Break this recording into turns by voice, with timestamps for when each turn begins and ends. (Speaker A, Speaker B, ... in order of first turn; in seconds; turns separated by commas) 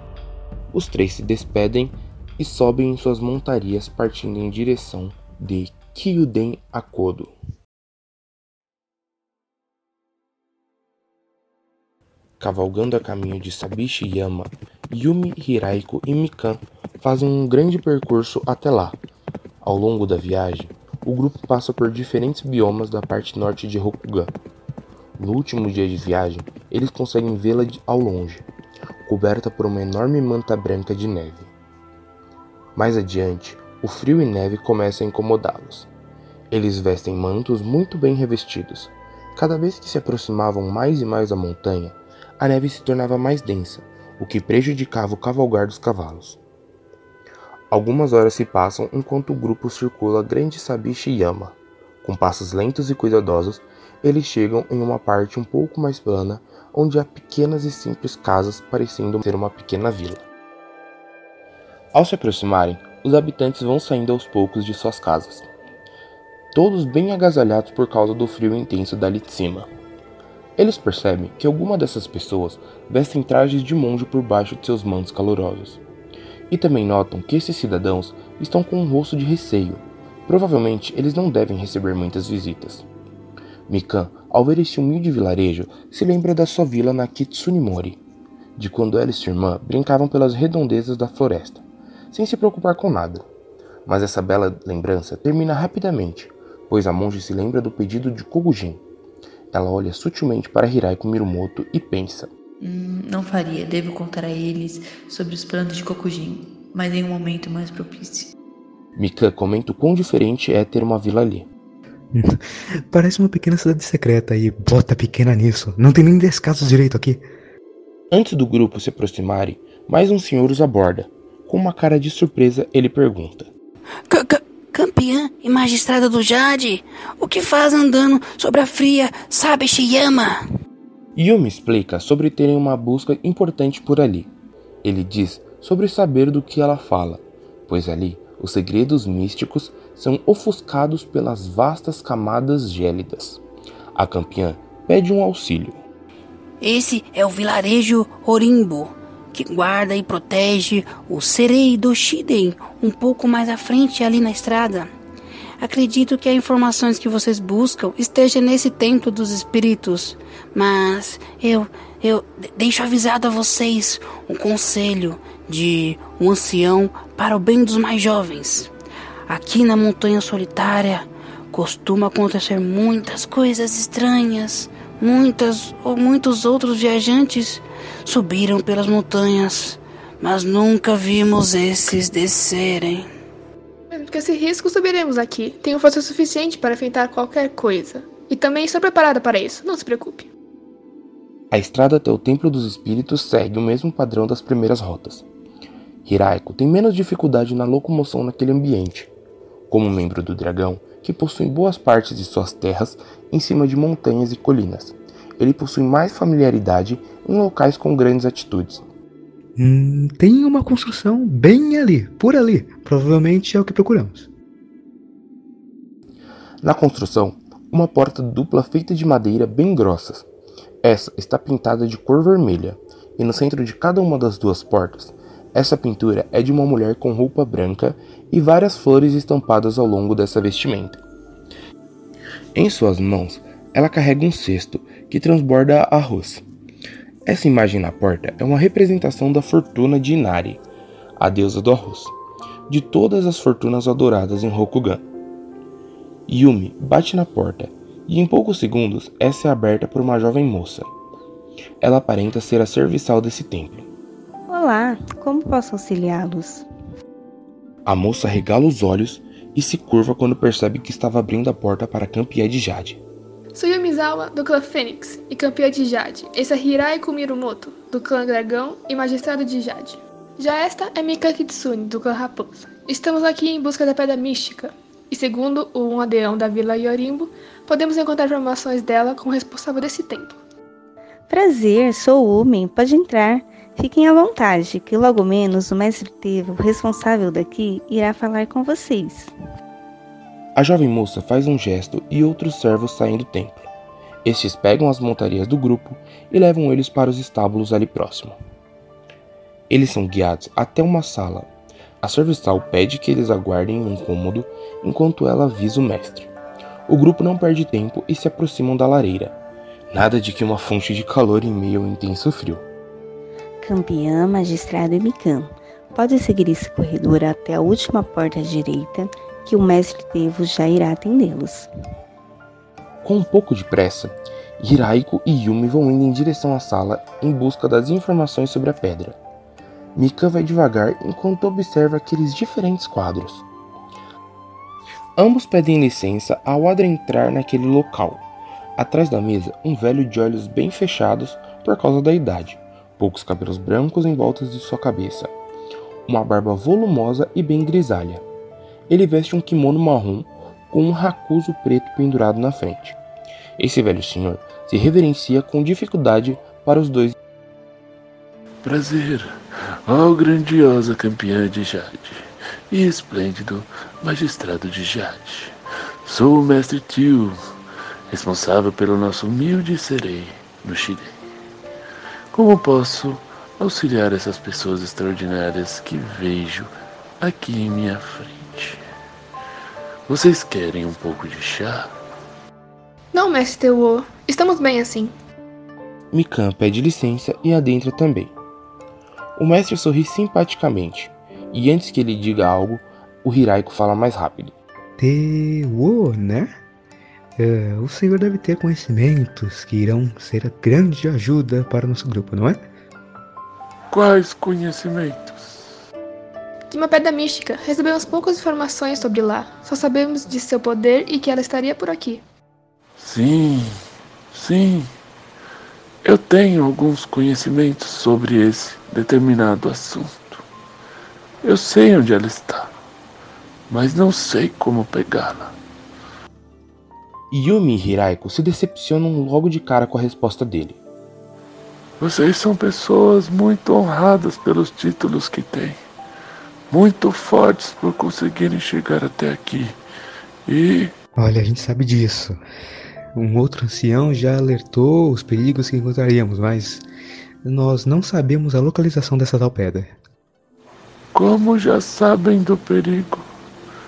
Speaker A: 0.7-7.3, Speaker A: 12.4-18.9, Speaker A: 19.6-24.3, Speaker A: 25.2-28.4, Speaker A: 29.0-31.5, Speaker A: 32.8-35.9, Speaker A: 36.5-46.4, Speaker A: 47.7-60.2, Speaker A: 61.9-65.5, Speaker A: 66.5-69.7, Speaker A: 70.6-75.8, Speaker A: 76.5-82.8, Speaker A: 83.7-88.0, Speaker A: 88.6-93.2, Speaker A: 93.8-98.8, Speaker A: 99.5-102.3, Speaker B: 102.6-108.3, Speaker A: 109.0-111.5, Speaker C: 112.1-117.2, Speaker A: 118.1-123.5, Speaker D: 124.1-130.4, Speaker A: 131.2-134.3, Speaker A: 134.8-143.4, Speaker A: 143.9-145.8, Speaker D: 146.6-154.9, Speaker D: 155.6-168.7, Speaker D: 169.3-183.1, Speaker E: 183.9-190.3, Speaker A: 191.5-195.2, Speaker A: 196.1-199.1, Speaker A: 199.7-208.8, Speaker C: 209.6-214.3, Speaker A: 216.6-220.2, Speaker A: 220.8-231.0, Speaker A: 232.5-236.4, Speaker A: 237.2-240.6, Speaker A: 241.2-242.1, Speaker A: 242.7-245.0, Speaker A: 246.3-250.9, Speaker A: 251.8-253.9, Speaker F: 254.5-256.6, Speaker A: 257.8-263.0, Speaker E: 263.5-280.4, Speaker F: 281.3-289.3, Speaker A: 290.6-293.7, Speaker A: 294.2-298.4, Speaker A: 299.7-301.5, Speaker A: 302.0-306.3, Speaker A: 306.9-309.4, Speaker A: 309.9-312.6, Speaker F: 313.6-321.7, Speaker A: 323.0-329.2, Speaker A: 329.9-333.4, Speaker A: 335.2-338.2, Speaker A: 338.8-345.3, Speaker A: 346.1-348.2, Speaker A: 348.9-353.0, Speaker A: 353.6-357.1, Speaker G: 358.6-367.4, Speaker G: 368.1-371.2, Speaker G: 372.3-378.8, Speaker G: 380.1-381.9, Speaker E: 383.1-385.1, Speaker A: 386.1-388.3, Speaker A: 389.4-394.5, Speaker C: 395.0-396.5, Speaker C: 397.4-402.6, Speaker G: 403.9-405.8, Speaker E: 406.7-412.2, Speaker G: 413.0-413.8, Speaker G: 414.3-414.9, Speaker G: 416.0-420.4, Speaker G: 421.4-422.7, Speaker G: 423.7-425.6, Speaker A: 427.3-430.8, Speaker G: 432.0-435.8, Speaker G: 436.7-439.7, Speaker G: 440.5-440.9, Speaker C: 441.2-442.4, Speaker C: 443.1-446.8, Speaker C: 447.4-449.9, Speaker G: 451.1-453.2